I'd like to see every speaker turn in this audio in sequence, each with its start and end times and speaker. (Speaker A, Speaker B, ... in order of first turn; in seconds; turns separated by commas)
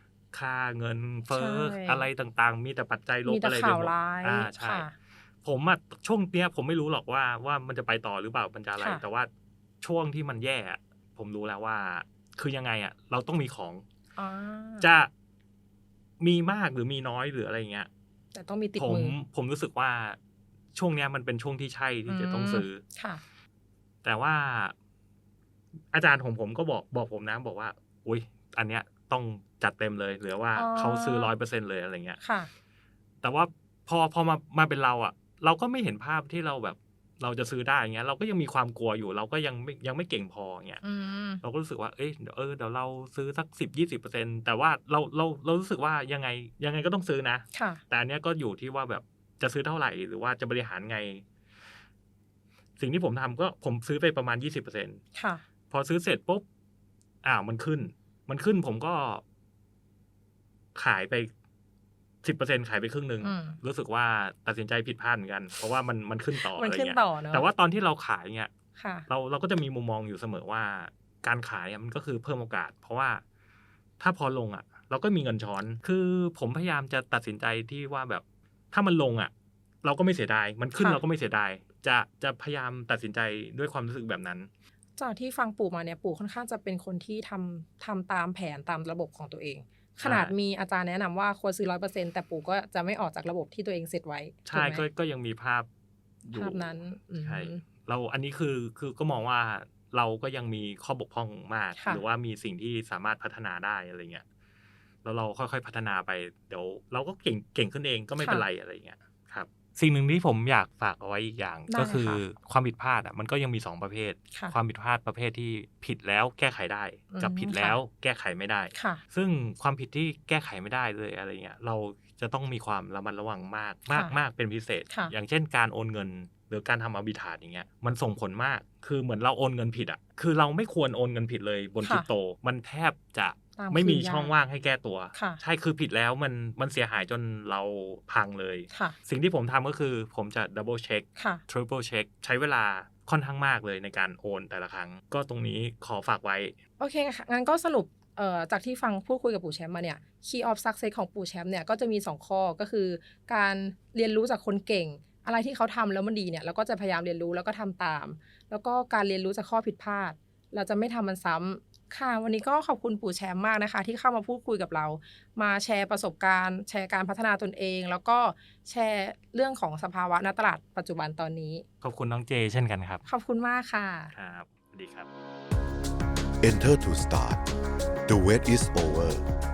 Speaker A: 0.3-4.9, Speaker B: 1.3-2.1, Speaker B: 3.2-4.9, Speaker A: 5.4-9.3, Speaker B: 8.8-9.0, Speaker A: 9.8-13.8, Speaker B: 14.2-14.9, Speaker A: 14.8-15.1, Speaker A: 16.2-17.9, Speaker B: 18.3-19.2, Speaker A: 18.8-20.2, Speaker A: 20.8-22.8, Speaker B: 22.1-23.2, Speaker A: 24.0-24.8, Speaker A: 25.9-32.2, Speaker B: 30.6-31.3, Speaker B: 32.2-32.5, Speaker A: 33.2-40.8, Speaker B: 40.8-41.4, Speaker A: 41.4-51.2, Speaker B: 47.5-47.8, Speaker A: 52.8-55.0, Speaker B: 55.1-55.4, Speaker A: 55.7-56.4, Speaker A: 57.2-59.2, Speaker A: 60.8-61.3, Speaker A: 62.2-68.5, Speaker B: 63.2-63.6, Speaker B: 66.3-67.5, Speaker B: 68.8-69.1, Speaker A: 69.1-73.2, Speaker A: 74.0-79.3, Speaker A: 79.8-84.5, Speaker B: 80.8-81.0, Speaker B: 85.0-94.9, Speaker A: 90.0-90.3, Speaker A: 94.5-95.7, Speaker A: 96.2-104.2, Speaker B: 96.3-97.6, Speaker B: 101.8-102.0, Speaker A: 105.0-146.6, Speaker B: 108.2-108.5, Speaker B: 111.7-112.2, Speaker B: 117.1-117.8, Speaker B: 118.8-119.0, Speaker B: 123.9-124.2, Speaker B: 124.9-125.2, Speaker B: 131.8-132.1, Speaker B: 133.6-134.3, Speaker B: 135.1-135.4, Speaker B: 138.7-139.0, Speaker B: 141.2-141.4, Speaker B: 146.8-171.6, Speaker A: 171.8-173.0, Speaker B: 173.1-174.1, Speaker A: 174.1-175.1, Speaker C: 176.4-177.4, Speaker C: 178.1-179.2